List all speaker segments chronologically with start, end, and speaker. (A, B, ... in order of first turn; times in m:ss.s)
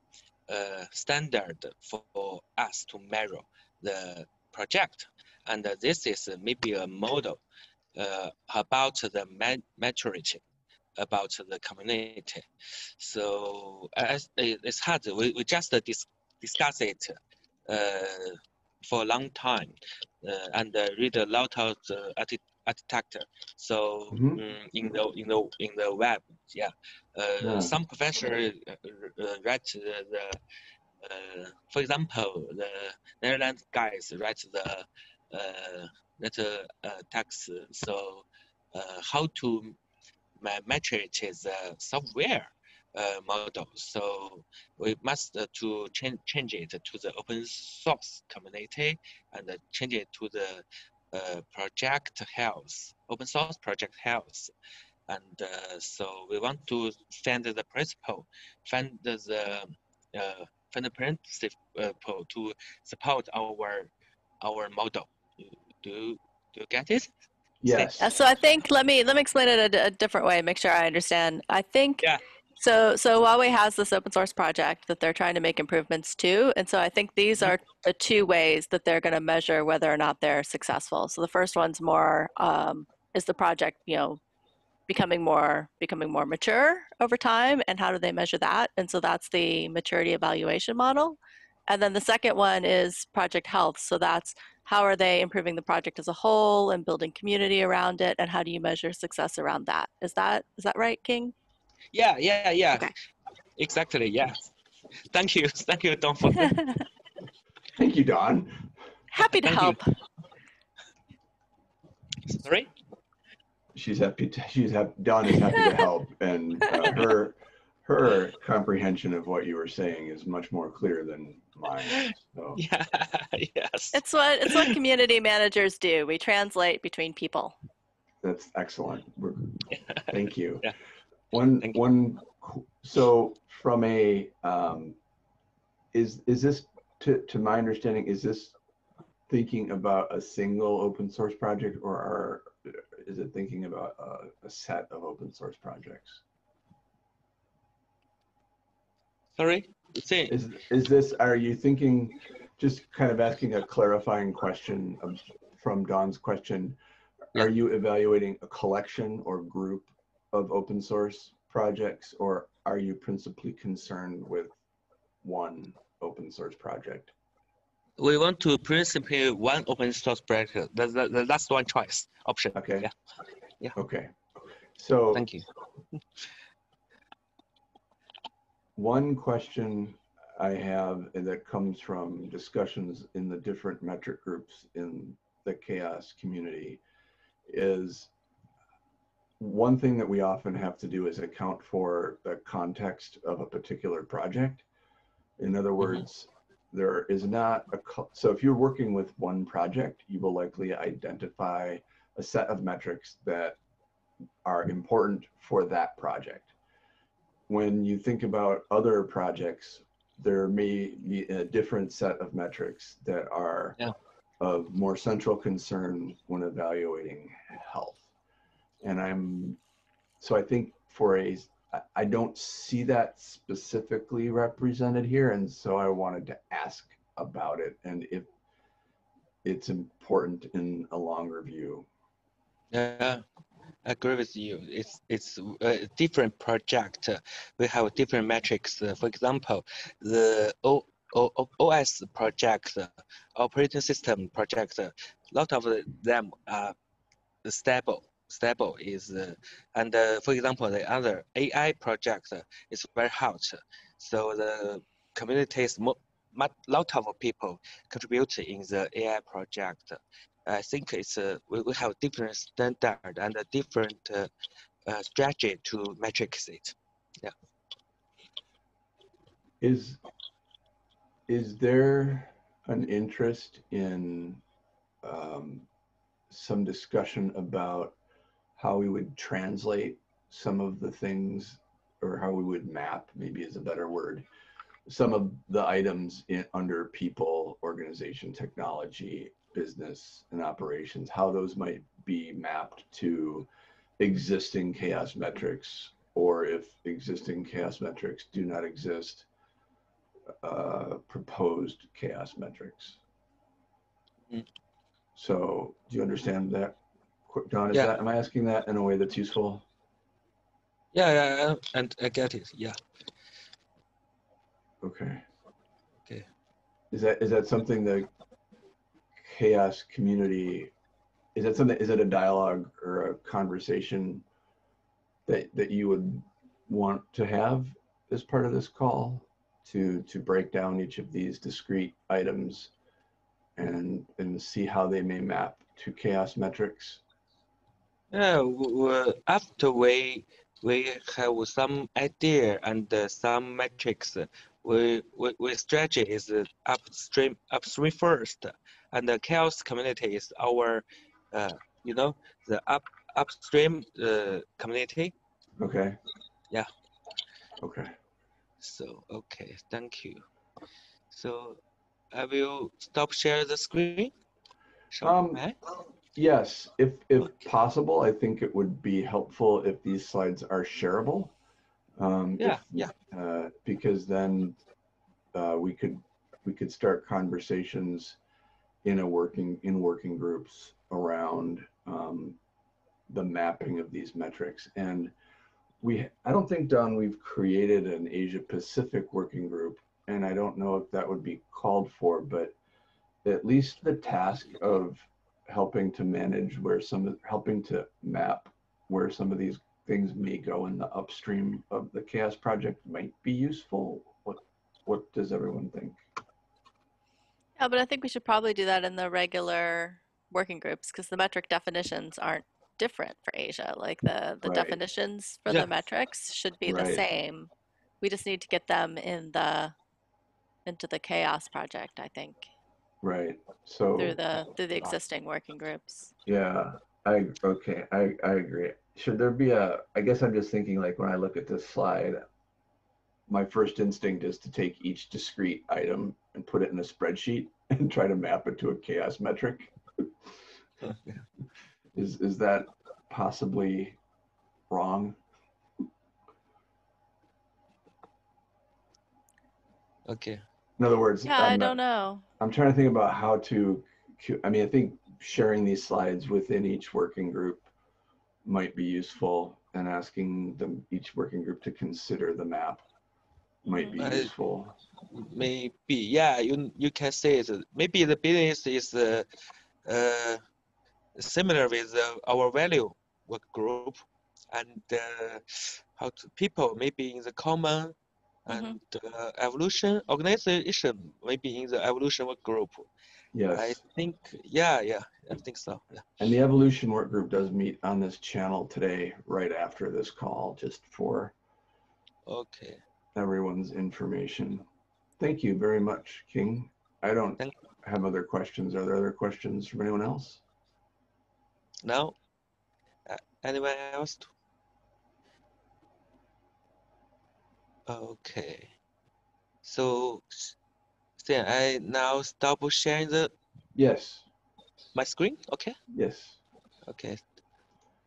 0:00.5-0:07.4 A
0:08.0-0:10.4 A
0:11.0-0:12.5 A
0:13.0-0:30.4 A
0:24.1-0:24.4 B
0:27.4-0:27.8 B
0:31.0-0:39.8 A
0:40.4-0:54.5 A
0:55.1-1:03.9 A
1:04.4-1:07.1 A
1:07.6-1:08.1 B
1:07.7-1:08.0 A
1:08.0-1:12.0 C
1:12.6-1:24.2 C
1:24.9-1:41.3 C
1:41.9-1:42.9 A
1:43.6-1:44.5 A
1:45.1-1:46.6 A
1:47.8-1:48.7 B
1:49.1-1:49.8 C
1:49.4-1:49.8 A
1:52.3-1:52.7 A
1:53.7-2:02.6 B
2:01.9-2:04.8 A
2:03.9-2:07.6 C
2:08.2-2:10.7 B
2:11.3-2:15.0 B
2:15.9-2:18.6 B
2:19.3-2:26.2 B
2:29.4-2:30.4 A
2:30.3-2:36.8 B
2:37.3-2:44.6 B
2:45.2-2:47.1 B
2:48.0-2:52.9 A
2:52.6-2:52.9 B
2:53.8-2:54.2 B
2:54.8-2:55.3 B
2:55.1-2:55.4 A
2:58.8-3:06.8 B
3:07.5-3:08.1 B
3:09.4-3:14.7 B
3:15.4-3:23.6 B
3:24.4-3:26.5 B
3:27.5-3:33.8 B
3:34.4-3:38.1 B
3:38.8-3:39.6 B
3:40.2-3:48.3 B
3:49.4-3:51.9 B
3:52.7-3:53.2 A
3:53.8-4:06.8 A
4:07.4-4:24.3 A
4:24.9-4:27.3 A
4:29.6-4:30.0 B
4:31.3-4:34.4 B
4:35.0-4:35.7 B
4:36.3-4:38.0 B
4:38.6-4:44.2 B
4:44.9-4:59.3 B
5:00.4-5:03.0 B
5:05.2-5:09.6 B
5:10.9-5:12.8 A
5:14.8-5:15.2 B
5:16.9-5:18.1 B
5:19.2-5:20.7 B
5:21.4-5:24.2 B
5:25.3-5:32.7 B
5:33.6-5:37.0 B
5:38.1-5:55.1 A
5:55.6-5:56.0 B
5:57.6-5:57.9 B
5:58.6-6:00.2 A
6:01.1-6:01.6 A
6:02.1-6:04.1 A
6:04.9-6:05.6 A
6:05.0-6:05.4 B
6:06.2-6:11.3 B
6:12.0-6:14.6 B
6:12.4-6:12.9 A
6:15.3-6:18.2 B
6:18.8-6:22.4 B
6:23.1-6:25.1 B
6:25.8-6:32.6 B
6:33.2-6:46.0 B
6:47.6-6:57.5 C
6:54.4-6:54.8 B
6:56.7-6:57.0 B
6:58.0-6:59.7 C
7:00.6-7:02.5 C
7:03.0-7:04.2 B
7:04.0-7:06.1 C
7:06.3-7:12.2 B
7:13.3-7:20.1 B
7:20.8-7:21.2 A
7:22.0-7:24.0 B
7:24.7-7:25.2 B
7:30.1-7:30.4 A
7:30.8-7:31.8 B
7:31.3-7:32.2 C
7:32.4-7:37.7 B
7:38.4-7:42.8 B
7:43.6-7:44.8 B
7:44.0-7:44.3 A
7:45.1-7:49.3 A
7:49.9-7:50.4 A
7:51.2-7:57.9 A
7:58.5-8:02.9 A
7:58.5-7:58.8 C
8:03.3-8:03.8 B
8:03.5-8:06.0 A
8:06.2-8:11.3 B
8:12.3-8:12.8 A
8:13.2-8:14.7 B
8:15.2-8:20.4 B
8:21.8-8:22.2 A
8:23.1-8:24.3 A
8:27.9-8:28.7 A
8:29.6-8:30.6 A
8:31.2-8:33.3 A
8:33.8-8:34.3 B
8:35.0-8:35.8 A
8:35.9-8:36.4 B
8:36.9-8:37.2 A